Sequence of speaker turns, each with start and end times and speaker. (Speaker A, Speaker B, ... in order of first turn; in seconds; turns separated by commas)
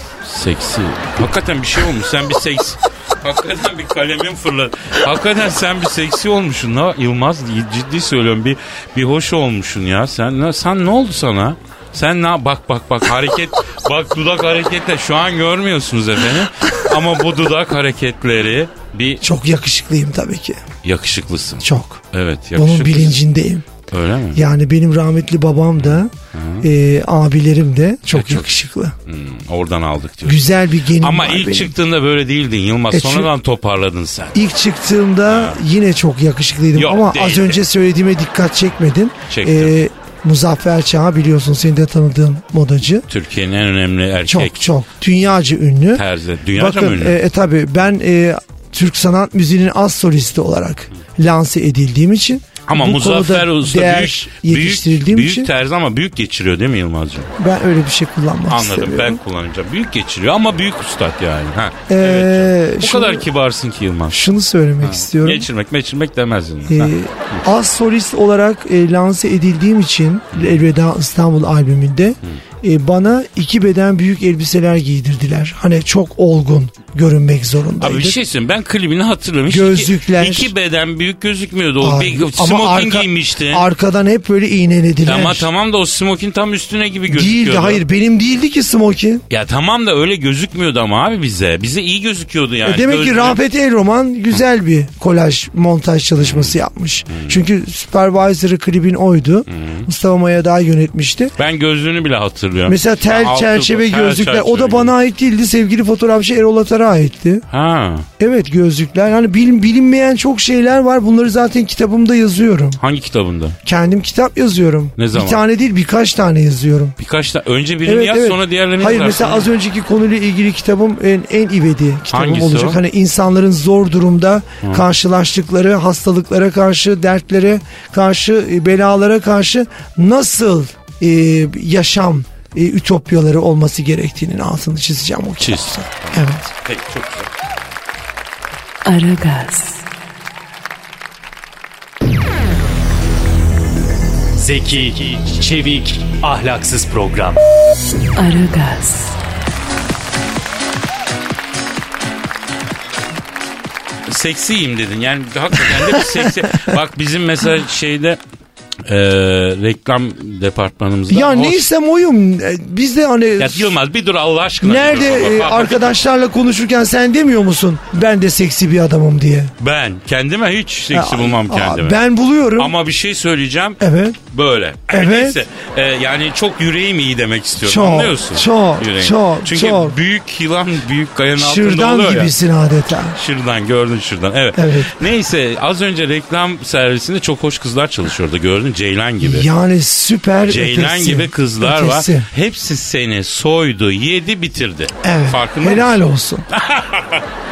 Speaker A: 0.2-19.2, Speaker B: 19.2-20.6, Speaker A: 20.8-23.2, Speaker B: 21.6-22.0, Speaker B: 22.6-23.7, Speaker A: 23.9-24.4, Speaker B: 24.3-28.9, Speaker A: 25.8-26.7, Speaker A: 28.1-28.5, Speaker A: 29.1-30.5, Speaker B: 30.2-31.7, Speaker A: 31.0-34.4, Speaker B: 32.9-33.3, Speaker B: 34.3-43.1, Speaker A: 35.3-35.6, Speaker A: 36.8-37.6, Speaker A: 39.3-39.8, Speaker A: 43.1-44.7, Speaker B: 44.3-55.5, Speaker A: 45.9-47.2, Speaker A: 52.7-57.3, Speaker B: 57.4-59.2, Speaker A: 58.5-64.2, Speaker B: 61.9-63.3, Speaker B: 64.1-65.5, Speaker A: 64.8-67.4, Speaker B: 66.7-78.2, Speaker A: 70.3-70.6, Speaker A: 77.8-83.7, Speaker B: 79.5-80.5, Speaker B: 81.8-85.5, Speaker A: 85.0-87.8, Speaker B: 87.1-89.2, Speaker A: 89.3-93.4, Speaker B: 92.6-101.4, Speaker A: 96.2-96.5, Speaker A: 97.1-97.4, Speaker A: 99.5-99.9, Speaker A: 101.4-104.9, Speaker B: 102.7-107.5, Speaker A: 107.5-108.1, Speaker B: 108.2-112.8, Speaker A: 112.8-113.6, Speaker B: 113.6-117.0, Speaker A: 115.0-115.4, Speaker A: 117.0-119.5, Speaker B: 117.8-136.5, Speaker A: 122.1-122.8, Speaker A: 135.4-137.3, Speaker C: 138.8-139.8, Speaker D: 144.4-147.4, Speaker C: 148.2-149.2, Speaker A: 154.1-158.2, Speaker B: 155.7-156.7, Speaker A: 158.9-161.7, Speaker B: 161.1-163.8, Speaker A: 163.4-165.9, Speaker B: 164.6-169.5, Speaker A: 169.6-172.0, Speaker B: 170.9-172.7, Speaker A: 172.6-173.8, Speaker B: 173.8-174.2, Speaker A: 174.3-182.3, Speaker B: 174.9-175.4, Speaker B: 177.6-180.0, Speaker B: 181.4-183.2, Speaker A: 183.1-189.5, Speaker B: 184.6-185.0, Speaker B: 189.2-192.3, Speaker A: 190.4-196.0, Speaker B: 195.0-196.5, Speaker A: 196.5-197.2